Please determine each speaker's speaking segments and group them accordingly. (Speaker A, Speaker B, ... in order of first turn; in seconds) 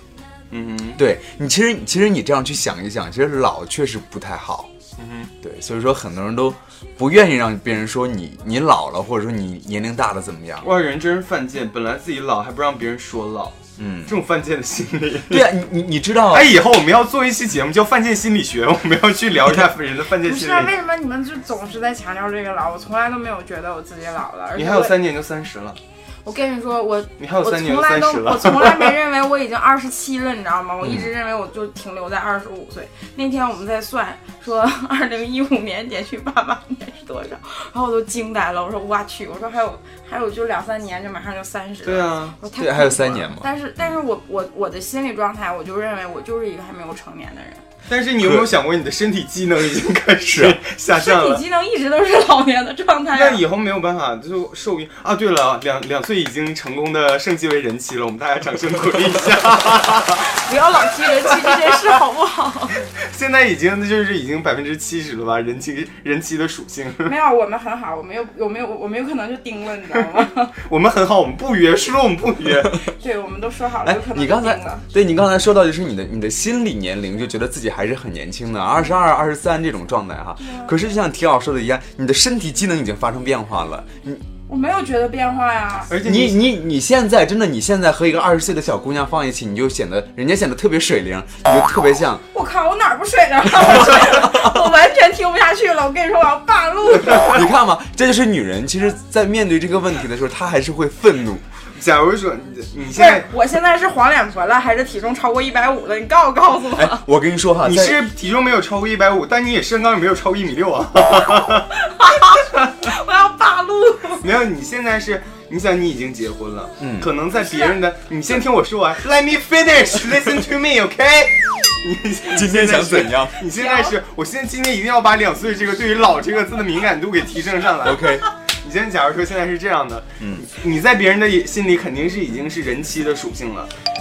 Speaker A: 0.5-1.0, 5.0-5.3, 10.6-15.5, 16.3-20.7, 24.5-25.8, 27.2-28.9, 41.8-42.4, 47.9-51.4, 53.1-60.3, 61.2-61.8, 63.0-67.1, 70.5-72.8, 85.9-86.4, 101.7-103.3, 107.6-111.7, 114.2-133.7
Speaker B: 1.0-4.7, 5.4-10.7, 13.8-14.1, 15.3-16.5, 30.8-31.1, 42.5-43.5, 50.2-50.6, 73.8-84.2, 86.0-92.2, 97.0-101.4, 106.7-108.1, 116.8-117.1, 122.3-123.4, 127.8-128.2, 130.2-130.4
Speaker C: 20.2-24.9, 26.2-47.6, 50.9-53.4, 60.2-62.8, 67.0-70.5, 73.0-74.8, 80.4-80.7, 84.5-85.9, 92.3-97.4, 103.0-107.0, 111.8-114.2, 117.4-117.8, 123.4-124.0